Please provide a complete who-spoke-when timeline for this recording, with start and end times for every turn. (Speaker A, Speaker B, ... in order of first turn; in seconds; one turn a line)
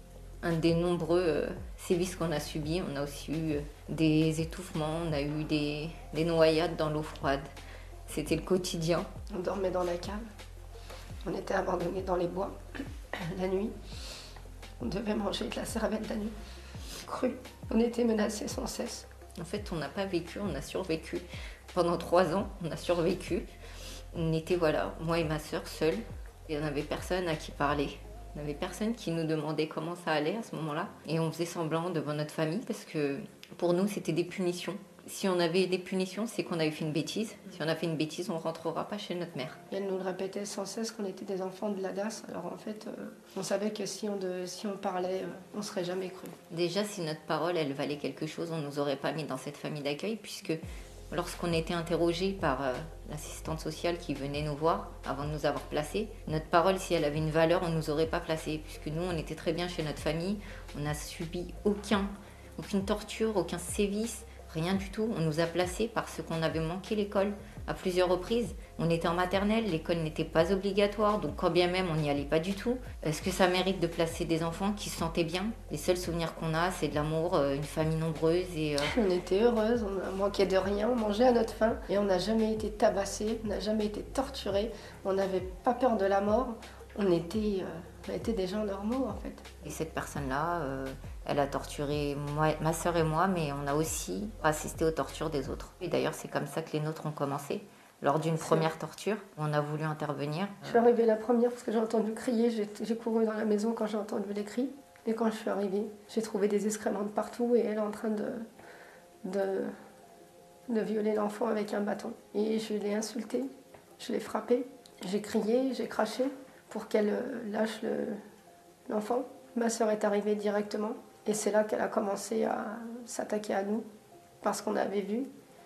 Speaker A: 0.4-7.4
Speaker A: 8.1-9.1
Speaker B: 9.3-10.2
Speaker B: 11.2-12.5
Speaker B: 13.2-13.7
Speaker B: 14.8-16.3
Speaker B: 17.0-19.1
Speaker A: 19.4-23.5
Speaker A: 24.1-39.6
Speaker B: 39.7-46.4
Speaker A: 46.5-78.9
Speaker B: 78.8-89.5
Speaker A: 89.6-100.8
Speaker B: 98.4-98.7
Speaker B: 100.6-108.5
Speaker B: 109.2-109.7
Speaker B: 110.7-118.2
Speaker B: 118.9-123.8
Speaker B: 124.4-125.3